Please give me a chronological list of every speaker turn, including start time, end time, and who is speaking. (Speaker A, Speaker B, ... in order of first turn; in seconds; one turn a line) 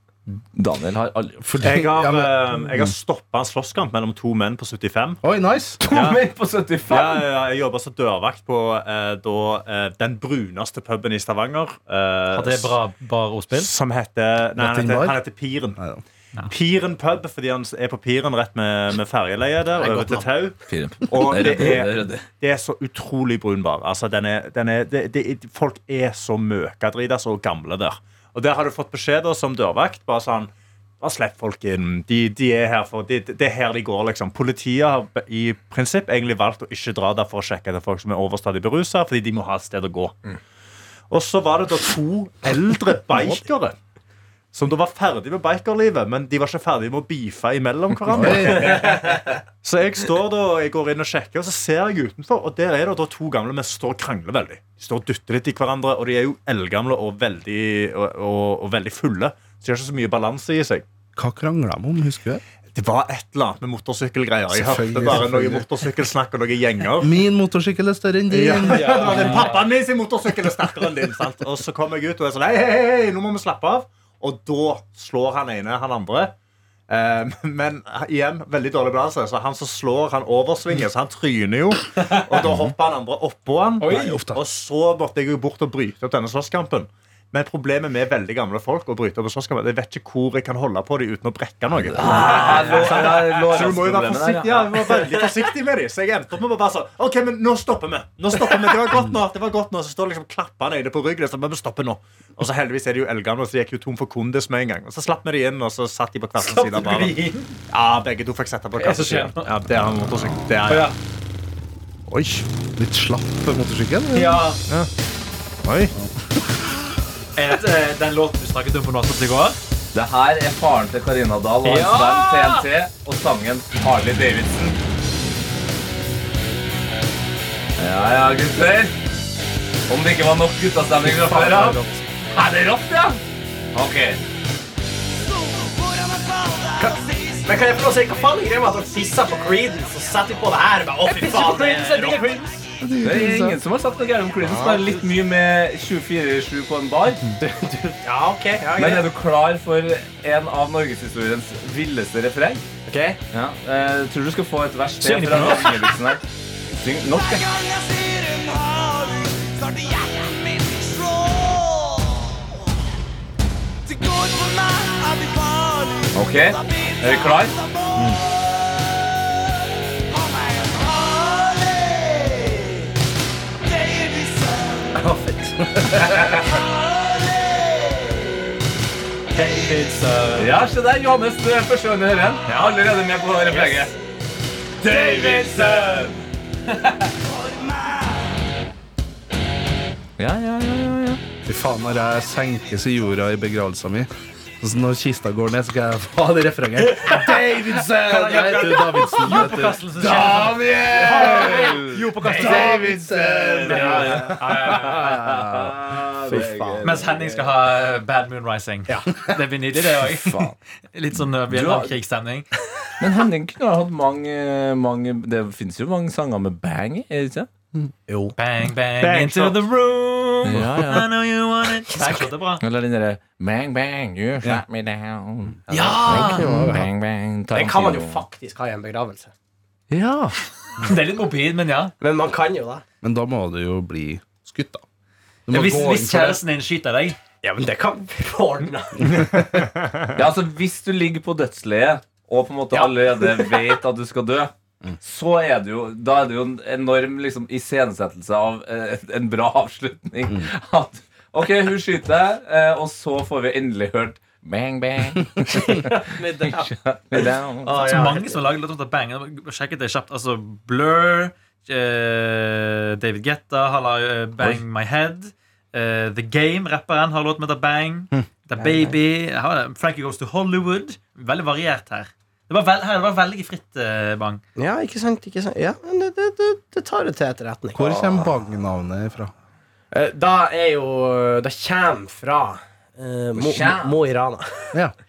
Speaker A: 0.5-1.6
Speaker B: 1.4-2.9
Speaker C: 1.6-5.2
Speaker B: 5.2-5.8
Speaker A: 5.8-7.3
Speaker C: 5.9-6.2
Speaker C: 6.9-12.8
Speaker D: 12.3-13.7
Speaker C: 13.5-15.8
Speaker B: 14.6-15.2
Speaker B: 15.8-16.0
Speaker C: 16.4-40.2
Speaker D: 19.8-20.2
Speaker A: 20.7-22.2
Speaker C: 41.1-43.8
Speaker C: 44.5-60.8
Speaker B: 48.1-48.8
Speaker B: 61.1-62.4
Speaker C: 62.7-67.1
Speaker B: 64.5-65.7
Speaker B: 67.0-69.3
Speaker C: 68.3-76.3
Speaker D: 68.7-69.7
Speaker C: 76.9-110.9
Speaker D: 82.0-82.2
Speaker D: 83.8-84.2
Speaker B: 84.0-84.4
Speaker A: 91.9-95.0
Speaker D: 92.5-92.9
Speaker D: 106.4-107.6
Speaker D: 108.8-109.5
Speaker D: 110.6-111.0
Speaker C: 112.1-112.5
Speaker B: 112.8-114.4
Speaker D: 114.1-114.6
Speaker C: 115.6-115.9
Speaker D: 117.3-119.6
Speaker A: 119.9-124.8
Speaker D: 121.6-122.7
Speaker A: 127.8-128.9
Speaker A: 129.9-131.8
Speaker E: 131.3-131.9
Speaker A: 132.3-133.2
Speaker A: 133.7-134.2
Speaker E: 136.8-142.4
Speaker D: 141.1-142.6
Speaker B: 142.8-143.6
Speaker A: 143.0-147.2
Speaker E: 144.4-144.9
Speaker E: 147.4-149.1
Speaker A: 148.8-152.6
Speaker E: 152.9-153.2
Speaker A: 153.3-156.2
Speaker D: 155.0-156.0
Speaker A: 156.7-157.6
Speaker A: 166.1-167.6
Speaker E: 174.9-176.0
Speaker A: 176.0-176.4
Speaker D: 179.3-180.5
Speaker A: 180.3-183.9
Speaker D: 182.5-182.8
Speaker D: 183.5-183.8
Speaker A: 184.8-186.2
Speaker A: 190.2-191.2
Speaker B: 191.4-194.1
Speaker B: 194.6-201.6
Speaker D: 197.0-204.9
Speaker A: 200.1-201.8
Speaker E: 201.2-202.6
Speaker B: 202.2-205.7
Speaker A: 202.3-207.6
Speaker E: 206.3-206.8
Speaker D: 206.8-212.5
Speaker A: 210.1-210.5
Speaker A: 211.5-211.9
Speaker A: 213.0-217.5
Speaker E: 218.1-218.3
Speaker D: 218.3-222.6
Speaker C: 219.0-219.6
Speaker A: 220.4-221.1
Speaker A: 222.6-228.2
Speaker D: 225.7-226.6
Speaker E: 226.1-226.8
Speaker B: 226.4-226.7
Speaker E: 227.5-229.3
Speaker A: 229.9-230.3
Speaker D: 230.8-231.9
Speaker E: 232.0-232.8
Speaker B: 233.0-234.8
Speaker B: 235.5-236.4
Speaker D: 235.5-237.2
Speaker E: 237.4-239.3
Speaker A: 240.1-258.1
Speaker E: 242.7-243.6
Speaker E: 255.5-258.4
Speaker D: 257.7-274.4
Speaker E: 268.5-268.9
Speaker E: 274.6-277.8
Speaker B: 277.7-279.3
Speaker A: 277.8-278.2
Speaker E: 279.9-284.8
Speaker A: 283.4-283.9